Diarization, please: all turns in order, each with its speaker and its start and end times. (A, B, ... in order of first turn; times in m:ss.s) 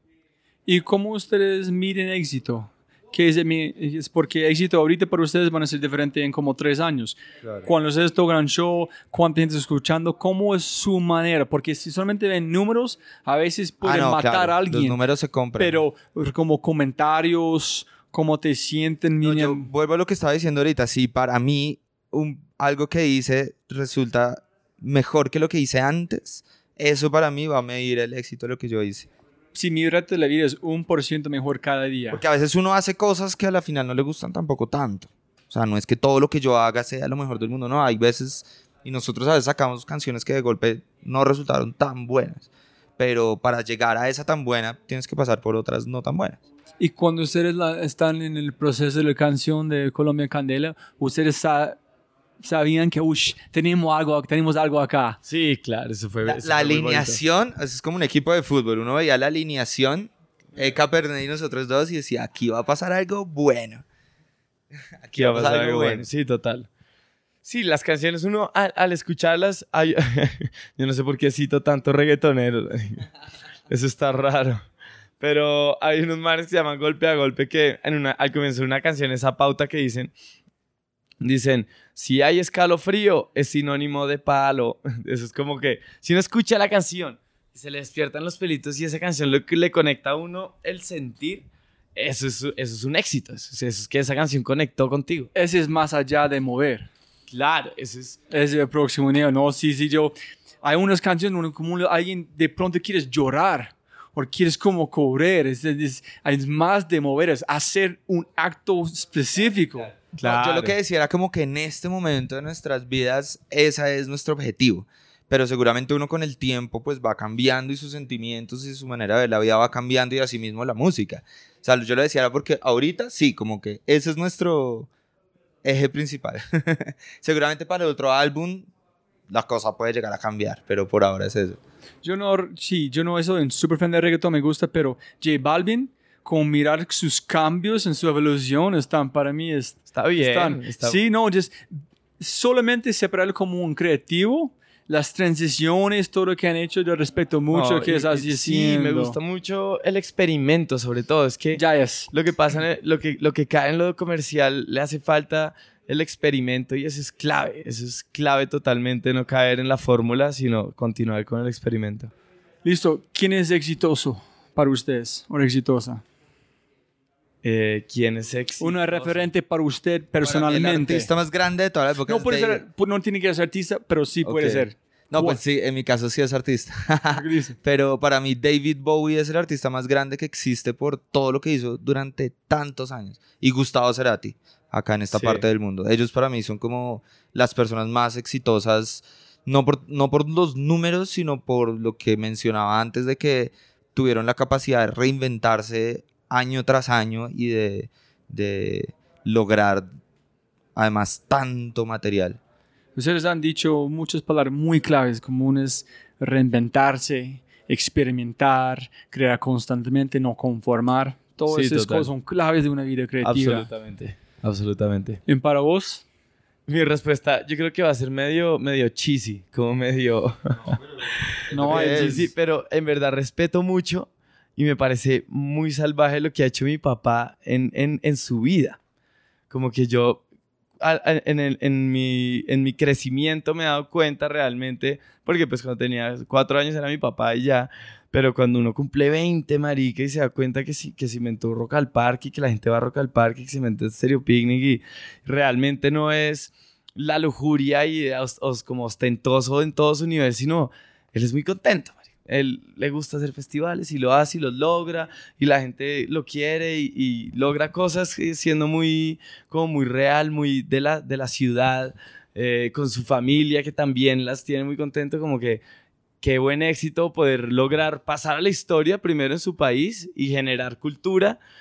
0:00.7-0:15.0 A
0:13.8-0:15.8 B
0:15.6-0:19.7 A
0:19.2-0:29.1 B
0:29.5-0:32.2 A
0:32.1-0:46.4 B
0:46.8-0:51.8 A
0:52.4-0:55.2 A
0:55.3-0:57.2 C
0:56.3-1:03.8 B
1:05.0-1:06.0 B
1:05.1-1:06.7 C
1:07.4-1:13.0 C
1:13.7-1:14.6 C
1:15.2-1:20.1 C
1:21.2-1:35.3 C
1:35.3-1:36.9 A
1:37.3-1:38.2 C
1:38.3-1:50.0 A
1:50.2-1:50.8 C
1:50.2-2:04.9 B
2:05.6-2:08.7 B
2:09.3-2:11.6 B
2:12.0-2:29.2 A
2:19.9-2:21.0 C
2:27.5-2:42.1 C
2:31.6-2:32.1 A
2:42.6-2:46.0 A
2:47.4-2:49.3 C
2:48.6-2:51.1 A
2:50.2-2:52.6 B
2:52.1-2:55.4 A
2:54.2-3:19.9 B
2:57.1-2:57.6 A
3:05.1-3:05.4 C
3:20.7-3:22.4 B
3:23.0-3:33.7 A
3:31.5-3:32.1 C
3:33.2-3:35.2 C
3:35.3-3:36.0 A
3:36.7-3:48.8 C
3:41.5-3:42.3 A
3:41.5-3:42.3 B
3:49.5-3:50.2 C
3:50.8-4:25.6 C
4:26.2-4:31.4 C